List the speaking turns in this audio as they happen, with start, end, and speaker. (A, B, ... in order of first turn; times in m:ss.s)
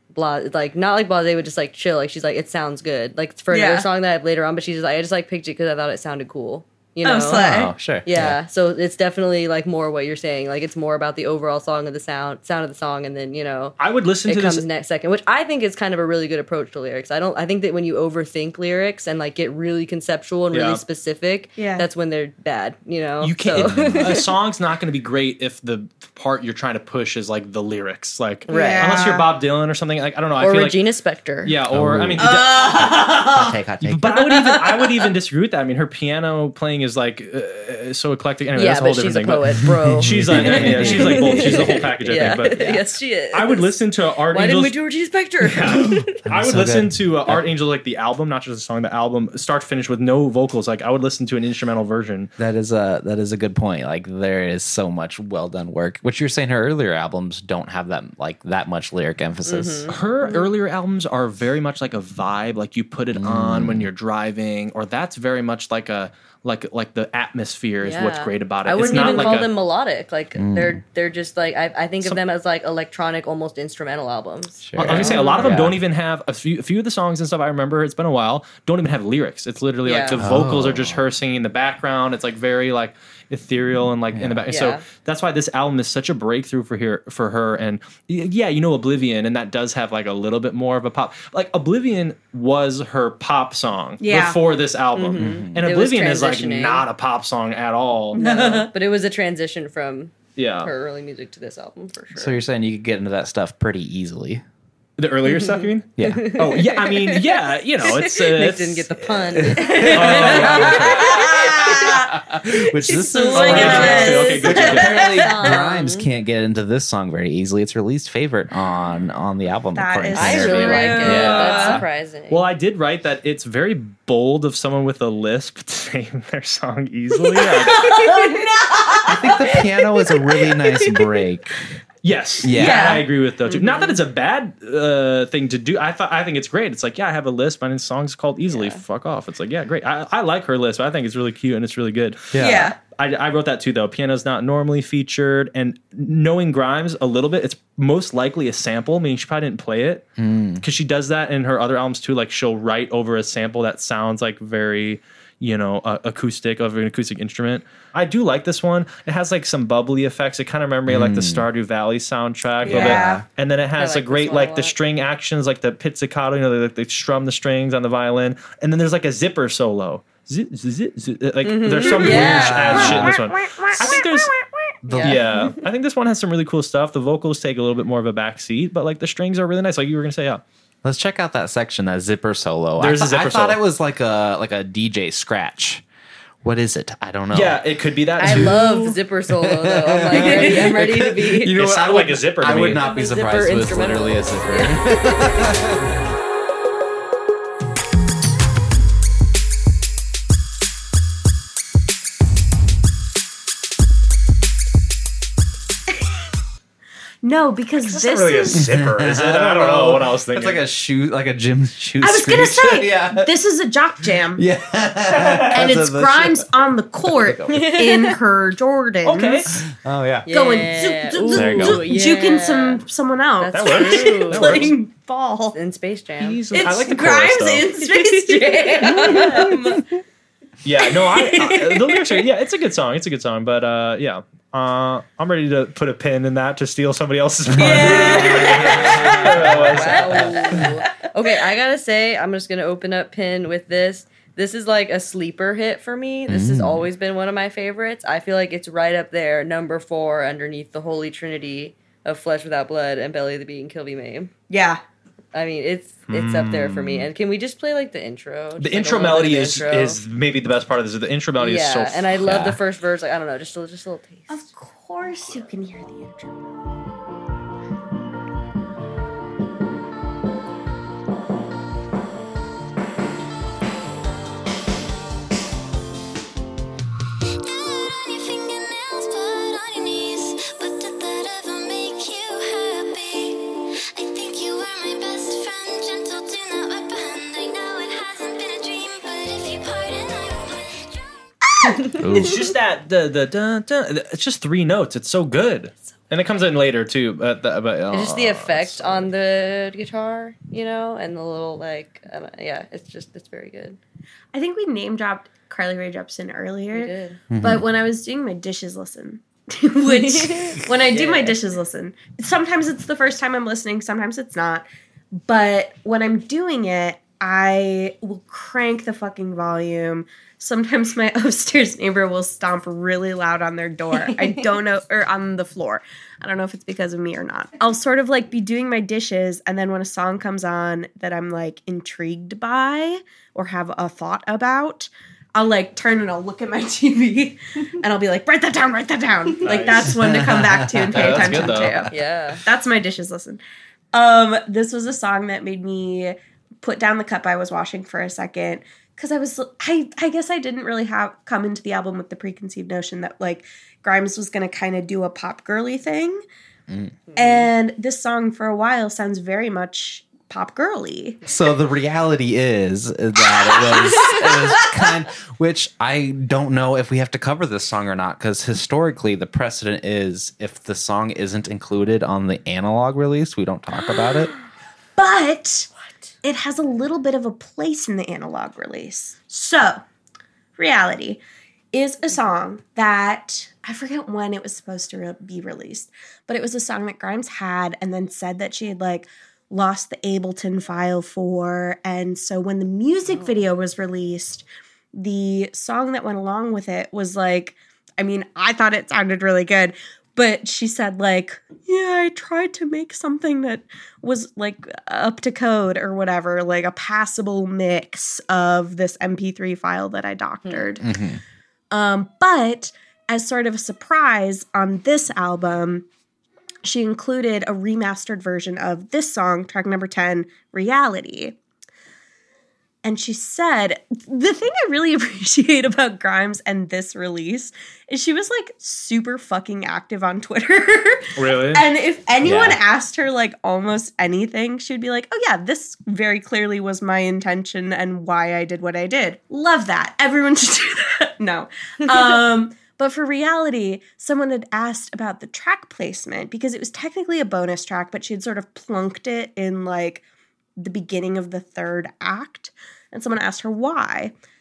0:00.1-0:24.3 A
0:03.5-0:03.9 B
0:07.0-0:07.7 B
0:07.3-0:08.4 C
0:13.8-0:14.6 D
0:20.5-0:20.8 D
0:21.6-0:21.9 B
0:23.2-0:30.8 D
0:23.6-0:24.2 C
0:28.5-0:29.1 A
0:28.5-0:29.3 B
0:30.4-0:31.6 A
0:31.4-0:32.9 D
0:31.7-0:34.1 C
0:32.2-0:33.6 B
0:33.8-0:44.8 D
0:34.1-0:34.8 B
0:38.6-0:43.8 A
0:40.0-0:41.8 C
0:44.3-0:46.2 A
0:45.4-0:52.3 D
0:46.2-0:47.4 C
0:52.4-0:59.9 C
0:59.5-1:00.5 A
0:59.9-1:09.5 D
1:03.2-1:03.9 C
1:07.8-1:15.6 A
1:08.8-1:09.4 B
1:10.4-1:10.8 C
1:14.6-1:15.8 C
1:14.8-1:38.2 D
1:19.8-1:20.2 A
1:20.2-1:21.0 C
1:24.1-1:24.5 C
1:24.5-1:24.8 A
1:34.0-1:34.4 B
1:34.9-1:36.9 A
1:35.2-1:35.7 C
1:38.1-1:42.4 A
1:38.1-1:38.7 B
1:40.4-1:40.7 D
1:42.1-1:44.4 C
1:45.0-1:51.2 D
1:45.3-1:51.7 A
1:46.0-1:46.3 C
1:49.4-2:01.8 C
1:49.6-1:55.6 B
1:52.9-1:56.1 A
1:53.3-1:55.1 D
1:59.7-2:01.8 B
2:00.1-2:02.5 A
2:01.0-2:08.3 D
2:07.2-2:11.0 B
2:09.0-2:11.6 C
2:12.0-2:30.0 D
2:12.4-2:13.1 C
2:12.5-2:13.1 B
2:13.5-2:14.0 A
2:18.5-2:18.8 A
2:22.3-2:22.7 C
2:22.4-2:22.8 B
2:30.2-2:30.6 C
2:30.6-2:54.3 D
2:40.9-2:41.5 C
2:42.6-2:43.2 B
2:42.7-2:43.2 C
2:43.8-2:44.7 A
2:51.4-2:52.9 A
2:51.8-2:54.8 B
2:52.0-2:53.2 C
2:54.9-3:00.4 D
2:54.9-2:55.6 A
3:00.8-3:05.8 C
3:02.8-3:03.6 D
3:06.4-3:07.6 C
3:07.3-3:08.9 D
3:08.2-3:11.6 A
3:08.2-3:08.6 C
3:09.4-3:15.8 C
3:10.1-3:10.8 D
3:11.4-3:12.9 D
3:12.7-3:15.3 A
3:27.2-3:28.7 B
3:27.8-3:30.6 D
3:28.5-3:33.3 C
3:32.0-3:34.4 B
3:34.3-3:36.5 C
3:35.1-3:35.6 D
3:35.5-3:39.6 B
3:37.1-3:37.6 C
3:37.5-3:38.2 A
3:39.0-3:39.6 D
3:39.7-3:40.3 C
3:40.3-3:42.8 A
3:40.3-3:45.6 B
3:41.3-3:41.9 C
3:43.4-3:44.7 A
3:43.5-3:44.8 D
3:45.5-3:46.5 A
3:46.2-3:47.8 D
3:46.5-3:49.9 B
3:47.9-3:49.5 A
3:50.6-4:00.6 D
3:51.0-3:52.2 B
3:57.5-4:00.3 C
3:57.6-3:59.6 B
3:57.9-4:14.3 A
4:06.3-4:06.9 C
4:14.5-4:14.8 B
4:15.3-4:20.0 A
4:16.1-4:17.1 D
4:18.6-4:22.1 D
4:21.4-4:24.4 A
4:22.2-4:22.6 C
4:24.3-4:26.4 B
4:37.4-4:51.3 E
4:52.0-4:52.5 C
4:52.0-4:59.1 D
4:57.9-5:03.8 A
5:04.3-5:43.4 B
5:06.7-5:07.2 A
5:07.3-5:07.6 C
5:09.9-5:11.4 A
5:24.1-5:24.3 A
5:39.4-5:40.0 D
5:39.9-5:41.9 C
5:40.9-5:41.8 D
5:41.9-5:42.4 A
5:43.9-5:56.2 B
5:57.1-5:57.5 A
5:57.2-6:01.2 B
6:01.2-6:14.3 C
6:15.0-6:15.7 B
6:16.2-6:19.8 B
6:20.6-6:21.2 B
6:21.7-6:50.9 B
6:50.4-6:50.7 A
6:50.8-6:51.2 C
6:51.7-6:55.9 B
6:56.6-7:01.4 B
7:02.8-7:30.0 B
7:11.2-7:11.7 D
7:12.2-7:12.6 C
7:30.6-7:34.1 B